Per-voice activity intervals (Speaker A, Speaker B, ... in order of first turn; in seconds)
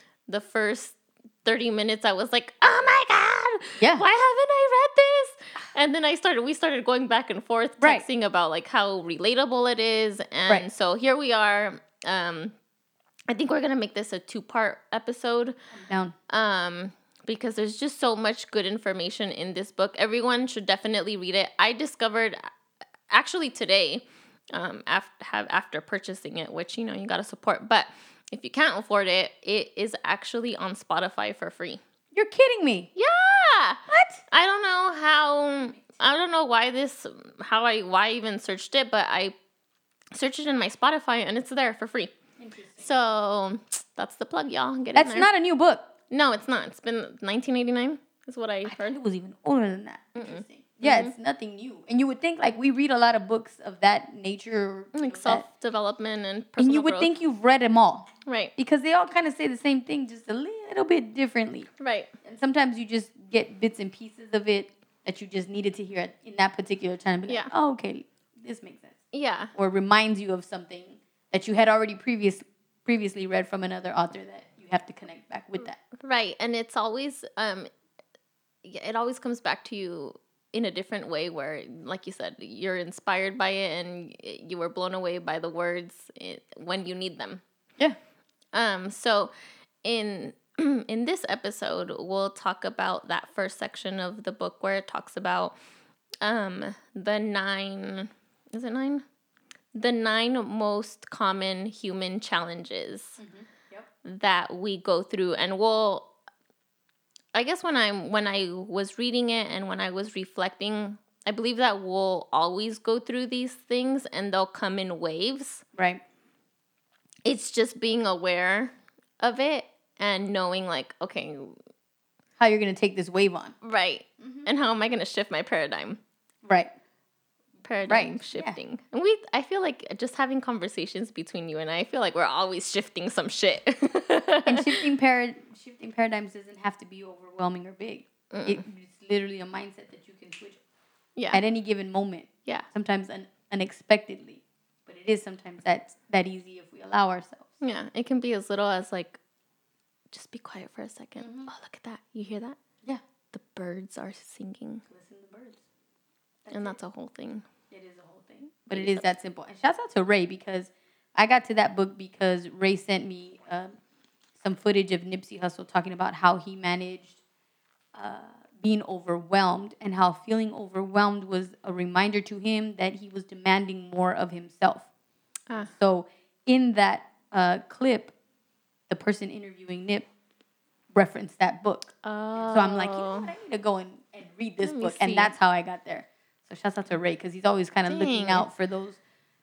Speaker A: 0.3-12.5, 13.3-15.6, 16.3-22.5, 23.1-31.8, 33.0-33.8, 34.3-39.3, 40.1-42.1, 42.8-45.3, 46.1-49.0, 50.2-51.1, 54.9-57.1, 58.3-58.5, 61.8-62.1, 67.3-67.5, 69.1-69.5, 76.0-77.7, 78.6-87.4, 88.5-89.3, 89.8-95.5, 96.2-99.0, 99.7-103.2, 104.0-106.1, 107.3-115.6, 117.2-121.6, 123.6-126.0, 127.6-134.8, 138.3-138.6, 141.2-141.4, 147.6-149.2, 150.1-152.6, 153.3-154.8, 156.5-157.4, 158.7-159.1, 182.0-183.3, 184.6-185.3, 187.9-188.5
Speaker B: 3.8-4.0, 7.8-8.1, 15.7-16.1, 32.1-32.9, 33.9-34.2, 42.4-42.9, 45.0-45.9, 48.7-55.4, 56.6-61.7, 62.2-69.0, 69.5-75.8, 103.2-103.9, 115.8-116.0, 122.4-123.6, 124.2-124.5, 126.5-126.7, 127.8-128.6, 134.5-140.6, 141.3-147.5, 151.2-151.5, 154.9-155.6, 156.5-156.8, 157.7-163.7, 164.4-167.2, 167.9-174.9, 175.6-178.1, 178.9-180.1, 180.9-189.0